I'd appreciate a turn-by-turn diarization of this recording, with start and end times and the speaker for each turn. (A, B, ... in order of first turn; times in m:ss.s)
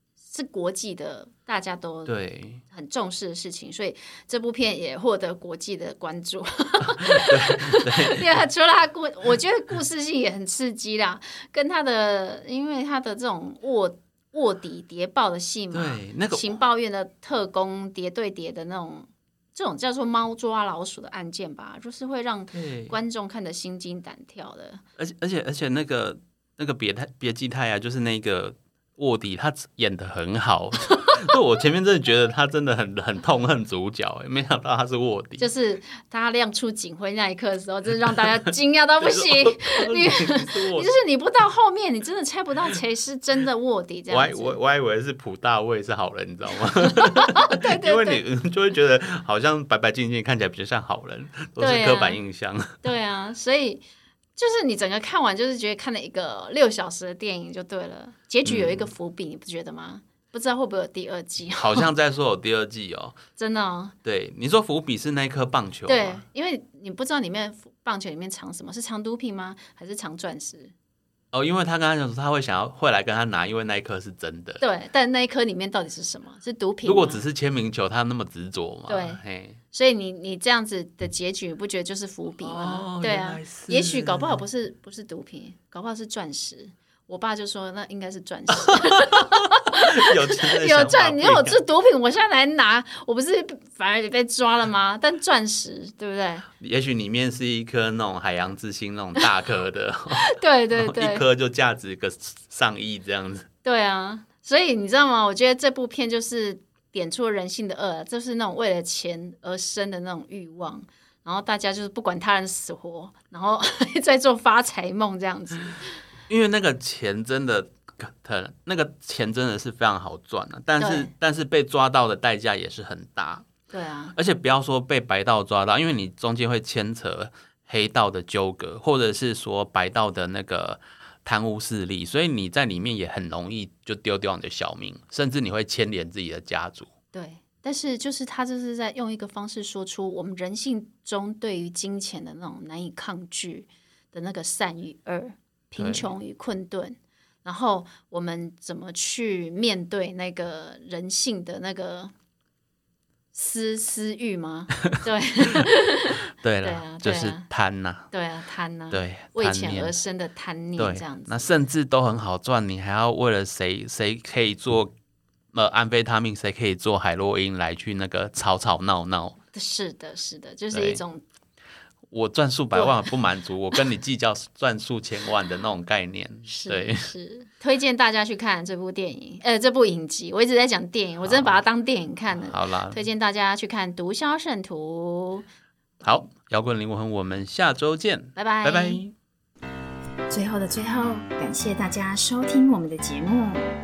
0:00.3-0:24.8 A
0:02.1-0:02.6 B
0:07.0-0:08.4 B
0:15.7-0:16.6 B
0:22.5-0:23.0 B
0:25.0-0:35.5 B
0:35.4-0:44.6 A
0:39.0-0:40.9 B
0:44.1-0:52.8 B
0:46.8-0:48.2 A
0:51.6-0:52.2 A
0:52.8-0:53.8 A
0:54.4-1:01.9 A
0:58.4-0:58.9 B
1:01.5-1:03.2 B
1:03.4-1:03.9 A
1:04.0-1:06.2 B
1:05.8-1:10.7 A
1:11.3-1:14.6 B
1:14.6-1:17.2 A
1:16.8-1:19.6 B
1:18.9-1:36.5 A
1:22.4-1:24.4 B
1:28.7-1:31.6 B
1:36.6-1:43.5 B
1:40.3-1:41.2 A
1:43.6-1:56.0 A
1:56.3-2:03.5 B
2:00.8-2:01.1 A
2:03.7-2:04.1 A
2:04.2-2:16.9 B
2:17.1-2:32.1 A
2:25.8-2:26.1 B
2:33.3-2:37.5 A
2:36.4-2:38.1 B
2:38.1-2:41.5 A
2:38.9-2:40.0 B
2:40.8-2:44.9 B
2:45.5-2:49.3 B
2:49.5-2:51.2 A
2:50.7-2:51.0 B
2:52.1-2:57.1 B
2:52.7-2:53.1 A
2:56.5-3:05.5 A
3:01.2-3:01.6 B
3:02.4-3:03.0 B
3:06.0-3:09.1 B
3:08.4-3:09.0 A
3:10.3-3:13.7 A